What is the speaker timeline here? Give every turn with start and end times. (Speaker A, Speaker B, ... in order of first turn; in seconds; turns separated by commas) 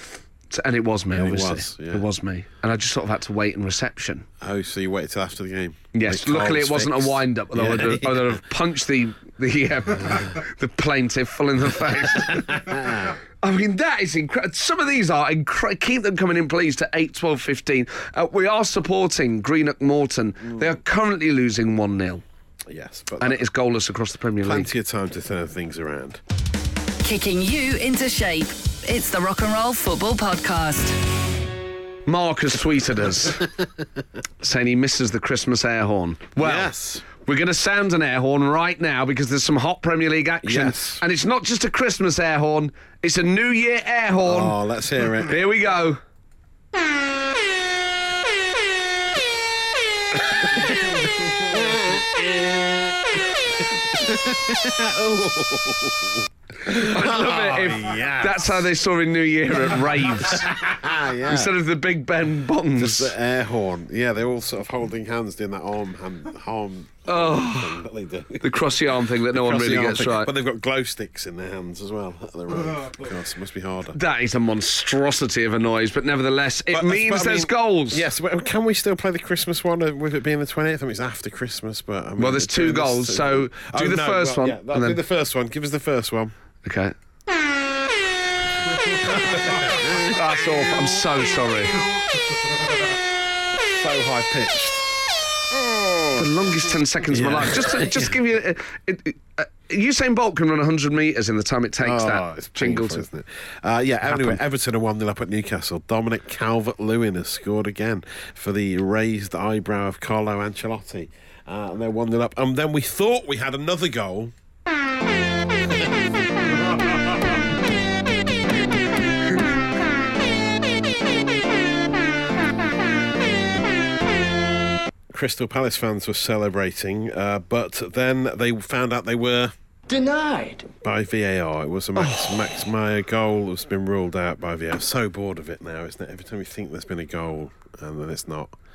Speaker A: 0.5-4.3, Speaker B: 1.1-2.1, Speaker B: 4.4-8.4, Speaker A: 5.9-22.2, Speaker B: 12.2-13.2, Speaker B: 20.4-20.8, Speaker B: 22.7-23.5, Speaker A: 23.2-24.7, Speaker B: 24.4-26.2, Speaker C: 27.0-31.0, Speaker A: 32.1-33.5, Speaker A: 34.4-44.6, Speaker B: 36.4-37.1, Speaker B: 40.4-41.0, Speaker B: 44.2-45.4, Speaker A: 45.3-46.0, Speaker B: 50.2-58.7, Speaker A: 56.7-60.5, Speaker B: 59.6-61.6, Speaker A: 61.2-63.1, Speaker B: 62.8-74.0, Speaker A: 67.1-67.8, Speaker A: 68.4-70.3, Speaker A: 73.9-78.1, Speaker B: 76.7-86.3, Speaker A: 82.2-85.0, Speaker A: 86.6-86.9, Speaker B: 88.9-91.0, Speaker A: 90.0-91.8, Speaker B: 93.6-94.9, Speaker B: 95.5-96.3, Speaker A: 96.2-103.1, Speaker B: 97.1-98.2, Speaker B: 101.8-114.3, Speaker A: 104.0-104.4, Speaker B: 115.6-117.1, Speaker B: 125.1-129.5, Speaker B: 130.8-138.5, Speaker A: 132.0-132.5